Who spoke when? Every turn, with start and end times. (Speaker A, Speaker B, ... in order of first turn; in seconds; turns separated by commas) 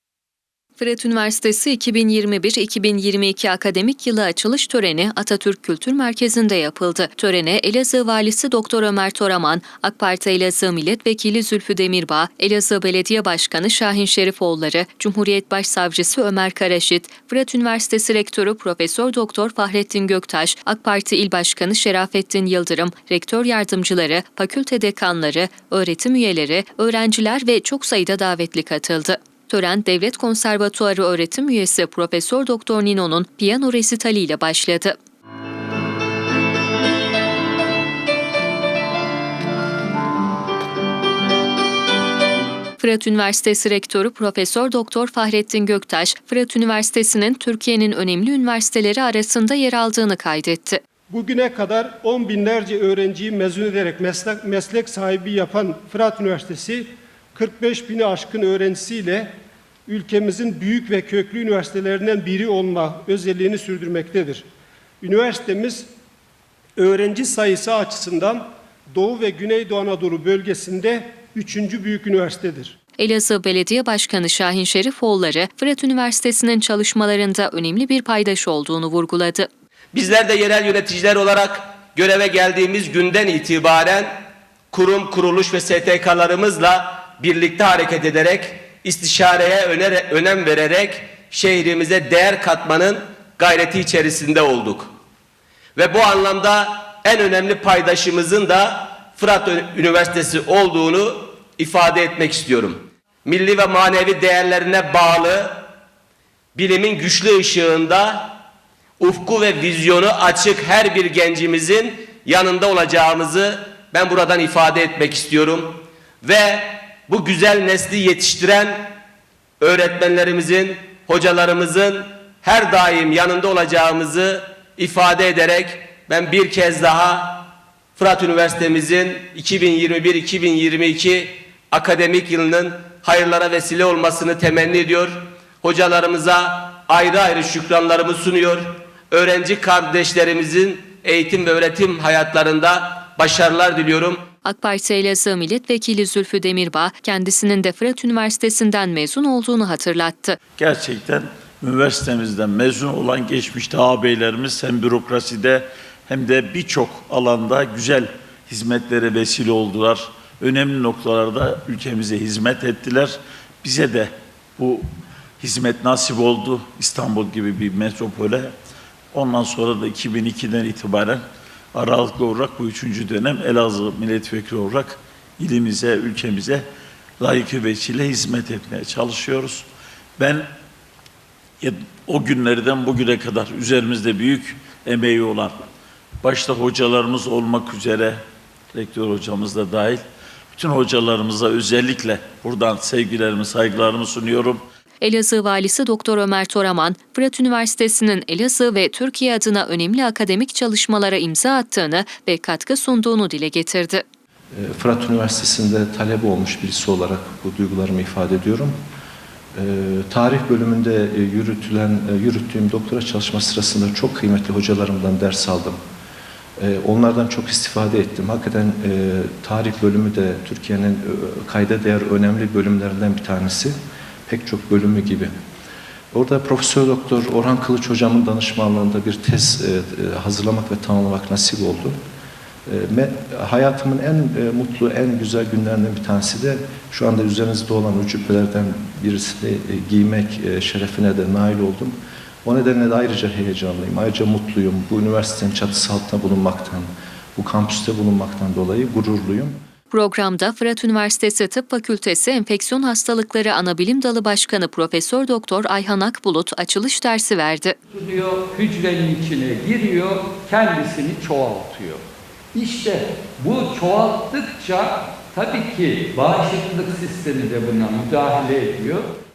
Speaker A: 0.8-35.0, Speaker A: 42.8-50.8, Speaker B: 51.1-59.3, Speaker B: 59.9-64.5, Speaker B: 65.0-65.9, Speaker B: 66.8-72.8, Speaker A: 73.0-79.5, Speaker C: 79.9-84.1, Speaker C: 84.7-94.9, Speaker C: 95.8-105.6, Speaker C: 106.5-108.3, Speaker C: 109.0-118.9, Speaker C: 119.6-144.2, Speaker A: 144.4-150.4, Speaker D: 150.6-164.8, Speaker D: 165.4-168.5, Speaker D: 169.1-176.7, Speaker D: 177.2-179.7, Speaker D: 180.2-180.5, Speaker D: 181.6-185.6, Speaker D: 186.2-188.2, Speaker D: 188.7-190.0, Speaker D: 190.5-194.6, Speaker A: 195.0-204.0, Speaker E: 204.5-208.7, Speaker E: 209.6-215.8, Speaker E: 216.6-223.8, Speaker E: 224.3-225.3, Speaker E: 226.1-232.0, Speaker E: 232.7-249.6, Speaker A: 249.9-257.8, Speaker F: 257.9-262.0, Speaker F: 262.5-269.1